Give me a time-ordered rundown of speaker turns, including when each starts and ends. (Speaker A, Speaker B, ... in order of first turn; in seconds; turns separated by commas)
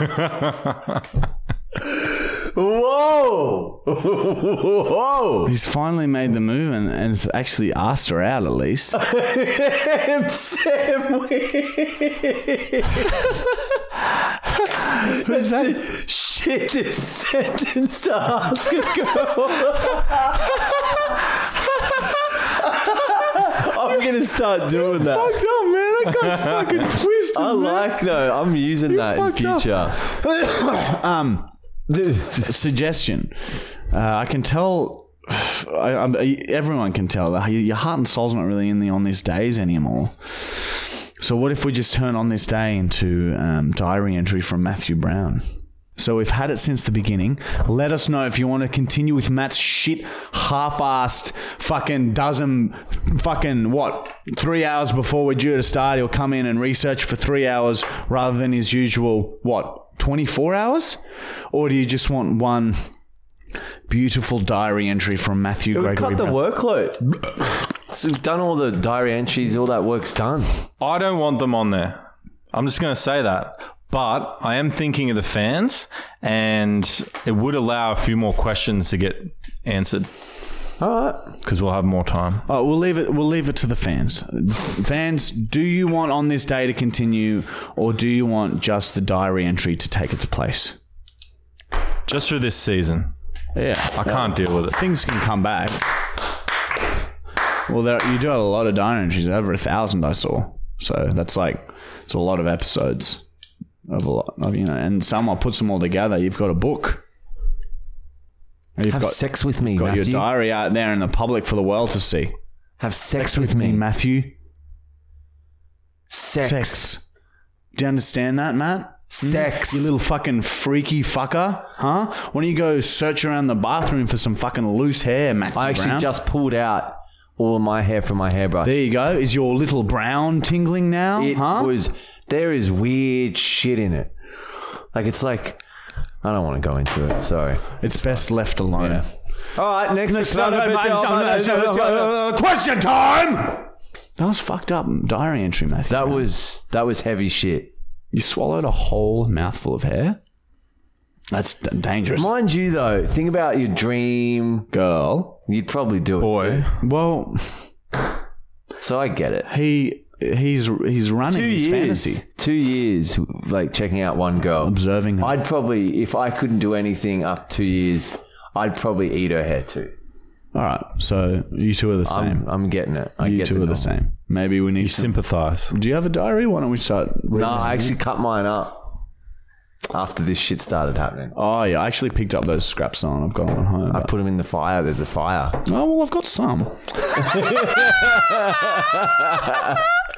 Speaker A: 1.9-5.5, Speaker B: 5.5-9.0, Speaker A: 8.9-13.3, Speaker A: 15.0-20.6, Speaker B: 15.1-15.8, Speaker A: 22.6-25.4, Speaker B: 24.8-27.9, Speaker A: 27.3-30.0, Speaker B: 28.9-31.5, Speaker A: 31.9-32.5, Speaker B: 32.4-62.9, Speaker B: 63.9-66.4, Speaker A: 65.7-67.1, Speaker A: 67.9-70.6, Speaker C: 70.8-72.0, Speaker C: 72.5-80.1, Speaker A: 80.8-81.3, Speaker C: 81.4-82.5, Speaker B: 82.5-90.8, Speaker C: 92.1-93.1, Speaker B: 93.5-95.9, Speaker C: 93.9-94.8, Speaker B: 97.7-103.2, Speaker B: 103.9-107.0, Speaker B: 108.8-112.3, Speaker A: 108.9-110.3, Speaker A: 112.8-113.8, Speaker B: 113.2-114.3, Speaker A: 116.1-117.0, Speaker B: 116.4-117.0, Speaker B: 117.7-126.1, Speaker A: 119.1-119.9, Speaker A: 125.5-128.7, Speaker B: 128.6-131.7, Speaker A: 131.2-134.1, Speaker A: 134.9-135.6, Speaker A: 136.2-142.2, Speaker B: 137.8-139.1, Speaker B: 140.1-146.3, Speaker A: 145.9-147.7, Speaker B: 148.1-150.2, Speaker B: 151.3-152.3, Speaker A: 152.2-154.7, Speaker B: 154.7-155.4, Speaker A: 155.5-156.7, Speaker C: 156.2-156.8, Speaker B: 156.8-157.7, Speaker A: 158.8-159.5, Speaker B: 159.5-162.2, Speaker A: 161.3-169.9, Speaker B: 164.6-165.4, Speaker B: 170.5-172.5, Speaker A: 172.1-173.9, Speaker B: 173.2-178.0, Speaker C: 174.8-175.7, Speaker A: 177.3-178.8, Speaker A: 179.9-181.3, Speaker B: 181.3-184.1, Speaker A: 183.9-185.6, Speaker B: 185.7-187.2, Speaker A: 187.2-189.8